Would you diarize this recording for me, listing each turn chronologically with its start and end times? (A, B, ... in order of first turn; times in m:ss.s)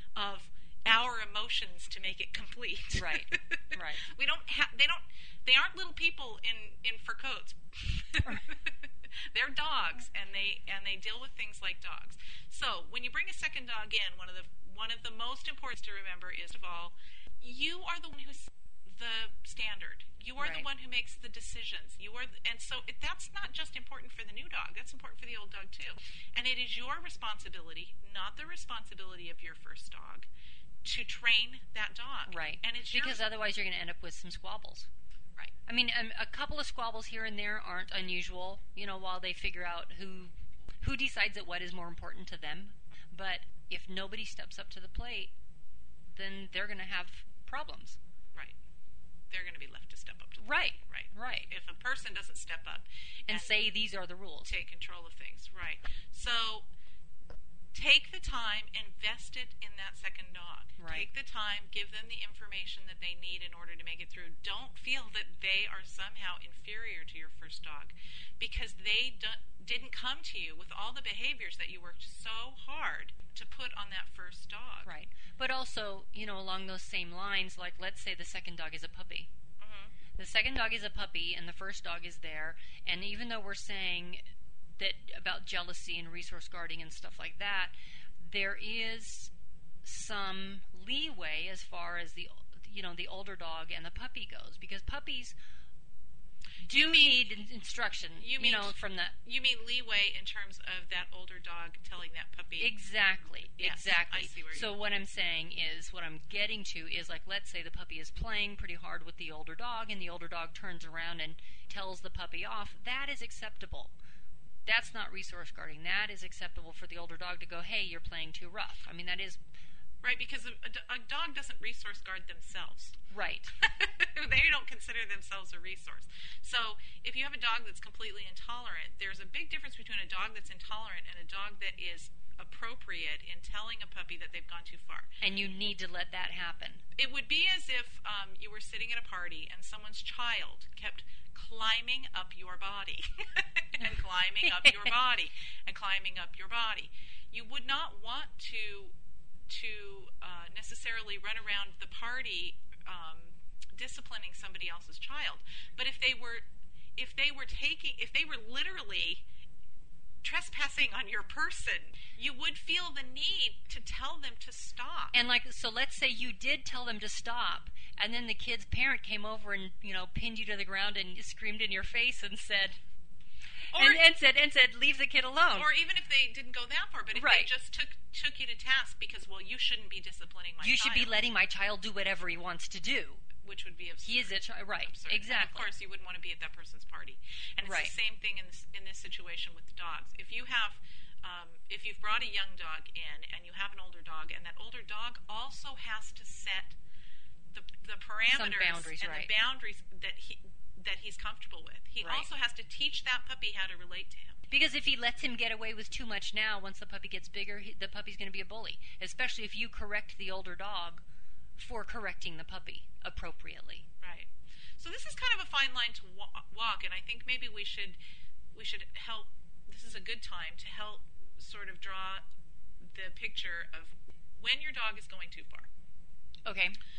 0:00.2-0:30.3 A
0:02.9-0:04.1 B
0:20.4-0:20.7 B
0:30.8-0:33.2 A
0:32.3-0:34.9 B
0:35.7-0:45.3 B
0:46.1-0:48.0 B
0:49.3-0:53.6 A
0:50.4-0:51.5 B
0:53.3-0:54.5 B
0:54.4-0:56.7 A
0:57.7-1:14.9 A
1:00.8-1:01.1 B
1:14.8-1:19.3 B
1:19.6-1:19.9 A
1:20.2-1:24.2 B
1:24.8-1:29.3 B
1:29.8-1:35.4 B
1:36.6-1:39.2 B
1:36.7-1:37.2 A
1:38.2-1:42.7 A
1:42.6-1:53.9 B
1:43.6-1:44.8 A
1:54.7-1:59.4 B
2:00.0-2:03.0 A
2:03.1-2:03.5 B
2:03.6-2:15.1 A
2:15.2-2:16.8 B
2:17.0-2:29.0 A
2:24.4-2:24.9 B
2:29.5-2:36.4 A
2:37.0-2:39.2 A
2:40.2-2:45.2 A
2:45.1-2:52.8 B
2:53.7-2:54.0 A
2:53.7-2:55.7 B
2:55.5-3:01.2 A
2:57.1-2:57.5 B
3:00.6-3:03.2 B
3:03.4-3:16.8 A
3:04.0-3:05.7 B
3:07.6-3:07.9 B
3:17.5-3:24.4 A
3:18.3-3:19.3 B
3:22.0-3:22.3 B
3:24.5-3:31.0 B
3:31.6-3:33.9 B
3:34.0-3:38.0 A
3:38.5-3:42.2 A
3:42.8-3:45.7 A
3:46.5-3:46.8 B